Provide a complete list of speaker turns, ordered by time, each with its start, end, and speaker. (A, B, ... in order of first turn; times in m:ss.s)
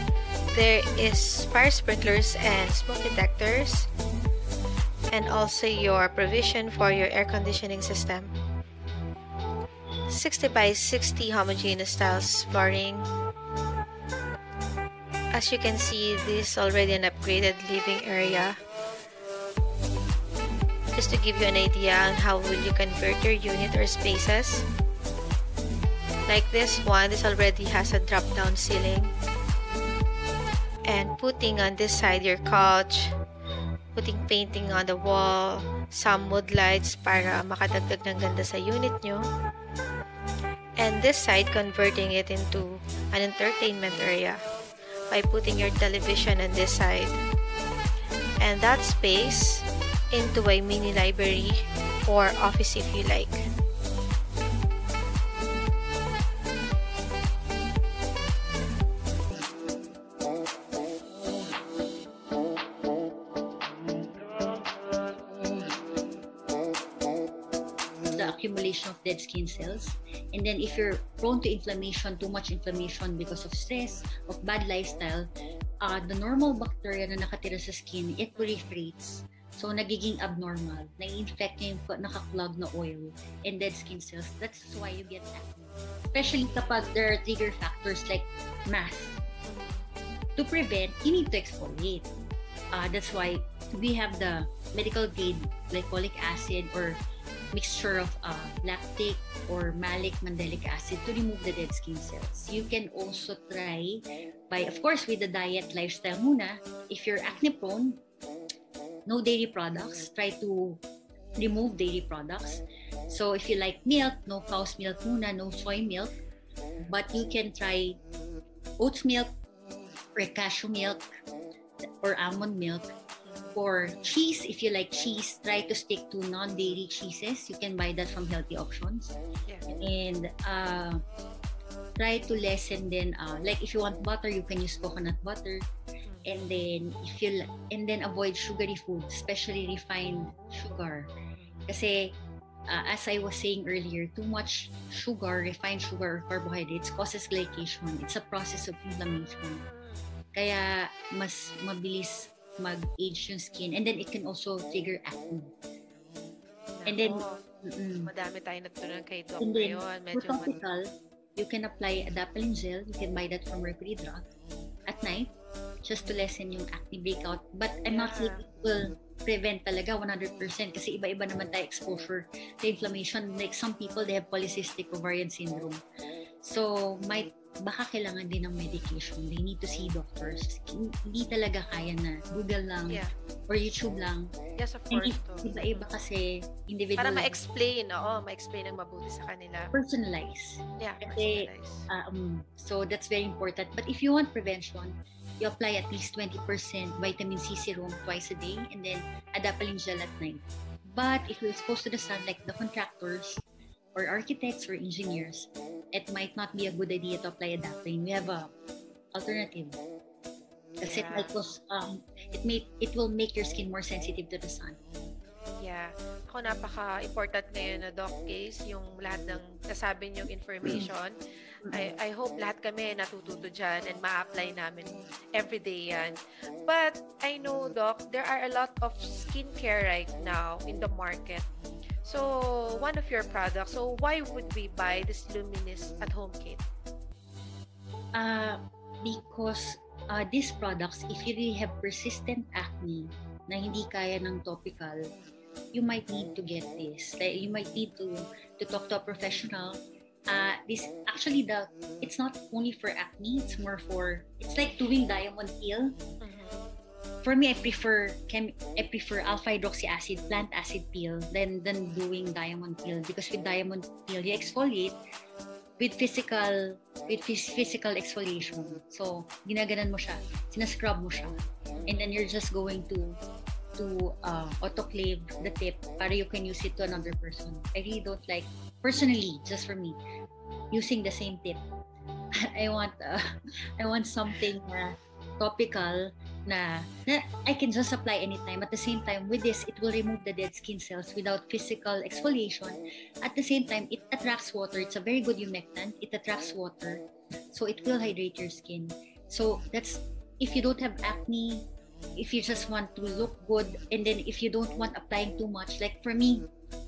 0:00.5-0:03.9 A
0:05.1-0:08.3 A
0:10.1-0:13.1 A
0:15.3-0:18.6 A
0:20.9-0:24.6 A
0:26.3-0:29.1 A
0:30.9-0:33.1 A
0:33.9-0:39.3 A
0:40.8-0:44.4 A
0:45.1-0:47.2 A
0:48.4-0:53.5 A
1:08.1-1:15.3 B
1:15.8-1:29.2 B
1:18.4-1:18.6 C
1:26.2-1:26.9 C
1:29.4-1:29.9 C
1:30.4-1:32.1 B
1:32.7-1:37.0 B
1:37.5-1:48.0 B
1:49.0-1:50.8 B
1:51.4-1:56.1 B
1:56.8-1:58.0 B
1:58.8-1:59.3 B
2:00.2-2:01.0 B
2:01.8-2:02.9 B
2:03.2-2:03.5 C
2:03.5-2:09.1 B
2:09.7-2:11.0 B
2:12.0-2:15.7 B
2:16.0-2:16.4 C
2:16.2-2:21.1 B
2:21.4-2:21.6 C
2:21.7-2:22.2 B
2:22.7-2:29.6 B
2:29.1-2:29.9 C
2:30.3-2:35.5 B
2:36.8-2:37.4 C
2:36.9-2:38.1 B
2:38.0-2:40.6 C
2:39.4-2:44.2 B
2:44.9-2:45.3 B
2:45.8-2:55.8 B
2:47.9-2:48.4 C
2:56.4-3:04.3 B
3:04.6-3:05.9 C
3:04.9-3:07.3 B
3:07.0-3:09.7 C
3:09.7-3:23.4 B
3:10.8-3:11.9 C
3:23.9-3:28.5 B
3:29.1-3:29.8 B
3:30.8-3:34.8 B
3:30.9-3:31.3 C
3:35.6-3:41.1 C
3:40.6-3:40.9 B
3:41.7-3:51.5 C
3:52.0-3:56.6 C
3:58.1-4:05.1 B
4:05.7-4:16.0 B
4:16.2-4:16.6 C
4:17.2-4:25.0 B
4:25.8-4:33.2 B
4:31.7-4:32.1 C
4:33.8-4:40.0 B
4:40.7-4:41.6 B
4:42.3-5:06.5 B